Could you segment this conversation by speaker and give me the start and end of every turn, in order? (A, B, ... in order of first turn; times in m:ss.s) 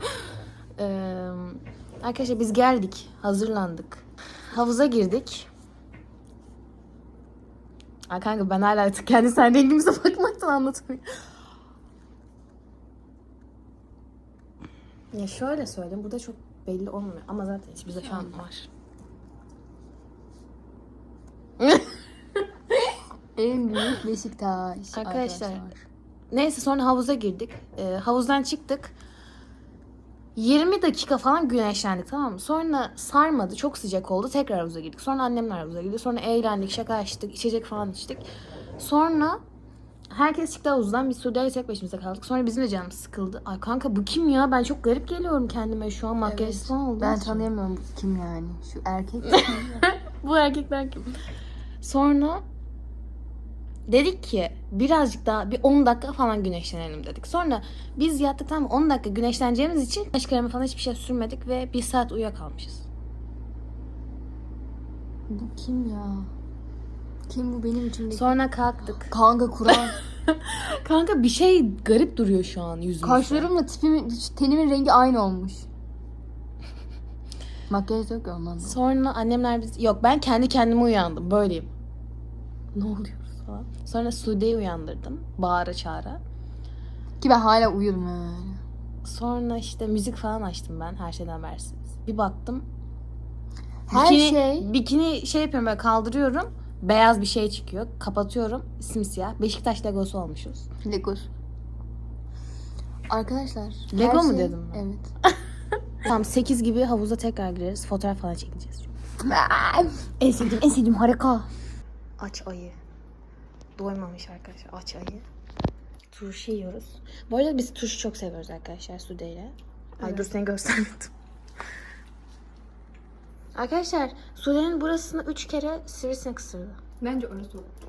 0:00.8-0:05.5 A
0:08.1-0:11.3 A
0:15.1-0:18.7 A
0:18.0-0:18.3 B
0:23.4-0:25.7 B
0:24.9-0:28.9 A
0:30.4-0:38.3 A
0:38.8-0:39.4 A
0:40.1-0:47.5 A
0:46.2-0:49.8 B
0:49.2-0:51.2 A
0:51.8-0:52.4 A
0:53.9-1:02.9 A
1:05.3-1:06.3 B
1:07.3-1:08.4 B
1:08.1-1:09.1 A
1:09.1-1:10.0 B
1:10.3-1:13.5 A
1:13.0-1:15.7 B
1:17.7-1:18.8 B
1:18.6-1:21.7 A
1:22.7-1:26.2 A
1:27.2-1:28.6 B
1:29.0-1:32.7 A
1:33.9-1:34.7 B
1:33.9-1:40.7 A
1:40.8-1:41.3 B
1:43.1-1:45.1 B
1:43.9-1:44.9 A
1:46.0-1:48.9 A
1:49.2-1:51.5 B
1:52.2-1:52.8 A
1:53.8-1:55.3 A
1:56.1-2:01.1 A
2:00.0-2:00.3 B
2:03.5-2:06.8 A
2:07.0-2:07.7 B